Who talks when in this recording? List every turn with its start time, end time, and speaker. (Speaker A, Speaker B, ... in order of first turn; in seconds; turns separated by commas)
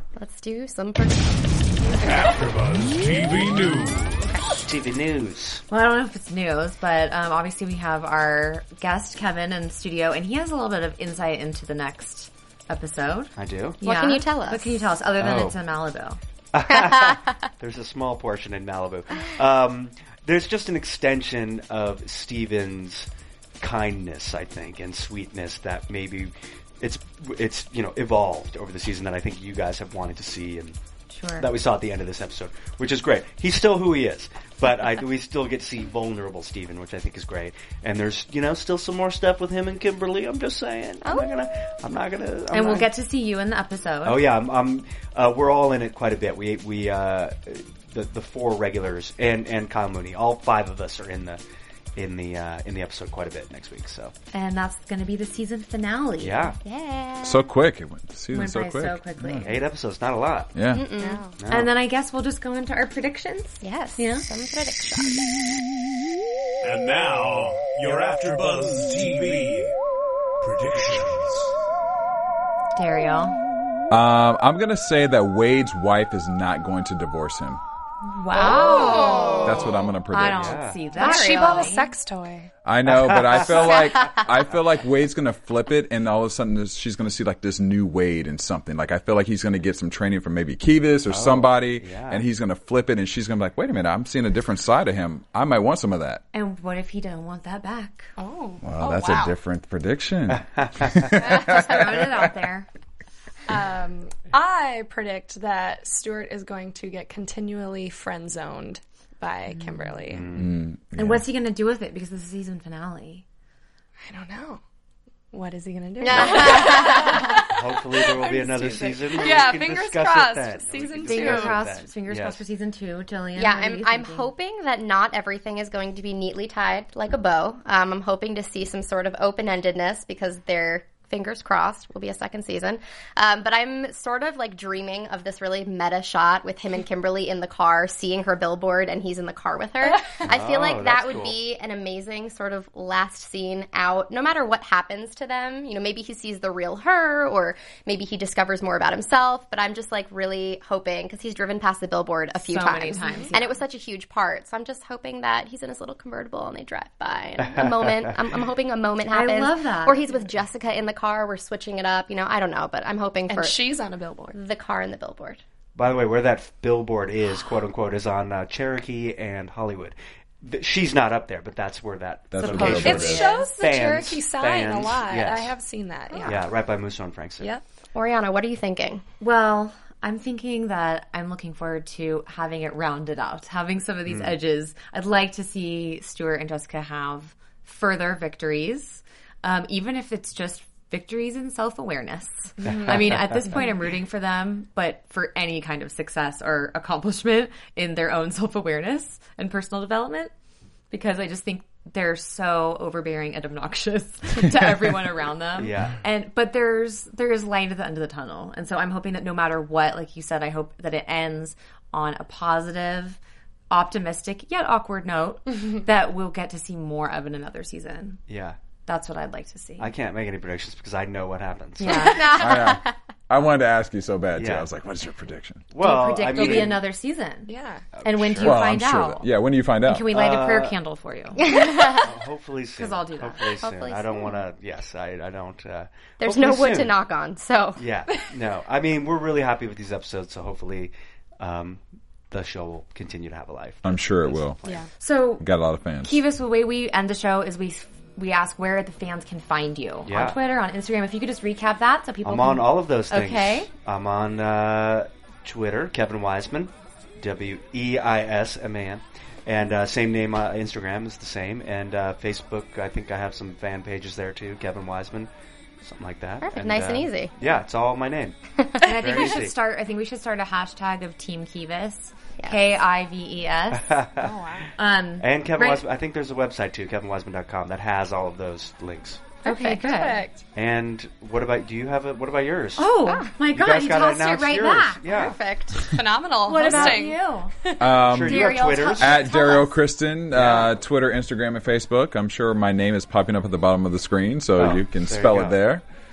Speaker A: 0.1-1.7, Speaker B: 1.9-4.5, Speaker C: 4.5-5.6, Speaker D: 5.7-16.2, Speaker C: 13.4-13.8, Speaker A: 13.8-14.8, Speaker C: 15.2-15.6, Speaker C: 16.5-23.1, Speaker A: 16.7-17.1, Speaker C: 23.6-30.8, Speaker D: 31.1-31.5, Speaker C: 31.4-42.9, Speaker A: 41.0-41.3, Speaker D: 42.5-44.2, Speaker C: 44.0-51.4, Speaker C: 52.0-54.1, Speaker D: 54.3-56.5, Speaker C: 56.2-56.6, Speaker A: 56.6-57.5, Speaker E: 57.2-59.5, Speaker D: 58.3-59.6, Speaker C: 59.4-60.5, Speaker E: 60.5-60.8, Speaker A: 60.7-61.3, Speaker F: 61.0-61.3, Speaker C: 61.4-61.7, Speaker D: 61.5-64.2, Speaker A: 63.6-65.4, Speaker B: 66.6-69.7, Speaker B: 70.4-71.5, Speaker D: 72.7-73.4, Speaker E: 73.9-77.6, Speaker D: 78.0-81.9, Speaker A: 78.3-79.6, Speaker F: 78.5-79.5, Speaker E: 79.4-80.6, Speaker C: 80.3-80.8, Speaker F: 81.0-82.5, Speaker E: 82.6-96.2, Speaker C: 82.9-83.7, Speaker A: 83.6-84.2, Speaker C: 91.1-92.2, Speaker D: 96.3-98.1, Speaker F: 98.2-99.3, Speaker E: 98.6-102.3, Speaker C: 100.3-101.2, Speaker D: 101.2-102.7, Speaker F: 103.5-110.3, Speaker D: 109.5-110.0, Speaker C: 110.1-110.6, Speaker E: 110.3-111.2, Speaker D: 111.0-113.2, Speaker F: 114.0-114.6, Speaker F: 115.3-121.6, Speaker A: 116.0-117.5, Speaker C: 116.1-122.4, Speaker D: 121.1-124.3, Speaker A: 123.3-163.6, Speaker C: 140.2-141.4, Speaker D: 152.4-153.6, Speaker C: 157.4-158.1, Speaker D: 159.1-160.1, Speaker F: 163.3-164.3, Speaker A: 164.3-165.4, Speaker C: 165.8-175.5, Speaker E: 172.3-173.2, Speaker D: 172.4-173.2, Speaker F: 172.4-176.4, Speaker A: 176.1-176.4, Speaker C: 176.2-177.5, Speaker A: 177.9-179.0, Speaker D: 179.2-200.3, Speaker C: 184.1-184.4, Speaker F: 192.6-193.1, Speaker D: 200.9-213.2, Speaker C: 205.6-206.0, Speaker D: 213.7-218.2, Speaker C: 218.3-218.6, Speaker D: 218.8-219.9, Speaker C: 219.8-222.4, Speaker D: 221.8-222.4, Speaker A: 221.9-222.9, Speaker E: 222.3-225.7, Speaker C: 224.3-224.7, Speaker C: 225.7-226.8, Speaker D: 225.8-227.5, Speaker F: 227.5-227.8, Speaker C: 227.9-228.7, Speaker D: 228.0-229.3, Speaker E: 228.4-230.1, Speaker D: 229.8-231.4, Speaker C: 230.1-230.8, Speaker A: 231.4-232.1, Speaker C: 231.5-236.9, Speaker D: 232.8-233.5, Speaker A: 233.6-234.4, Speaker A: 236.2-237.8, Speaker C: 237.8-244.8, Speaker E: 243.8-244.6, Speaker D: 245.0-245.4, Speaker E: 245.4-246.1, Speaker D: 246.0-253.7, Speaker C: 250.1-250.4, Speaker C: 252.2-265.3, Speaker C: 265.8-268.4, Speaker A: 266.4-267.3, Speaker A: 268.6-269.1, Speaker D: 268.8-274.1, Speaker C: 268.9-269.6, Speaker C: 273.7-274.5, Speaker F: 274.2-274.7, Speaker D: 274.8-275.8, Speaker C: 275.2-279.3, Speaker F: 279.4-280.4, Speaker D: 279.4-280.2, Speaker C: 280.5-282.9, Speaker D: 282.8-285.0, Speaker A: 283.0-283.3, Speaker C: 283.5-285.4, Speaker A: 285.0-285.9, Speaker F: 285.8-287.8, Speaker D: 286.5-287.5, Speaker E: 287.8-295.8, Speaker C: 287.9-289.3, Speaker D: 288.2-289.6, Speaker C: 290.3-290.7, Speaker C: 294.6-295.6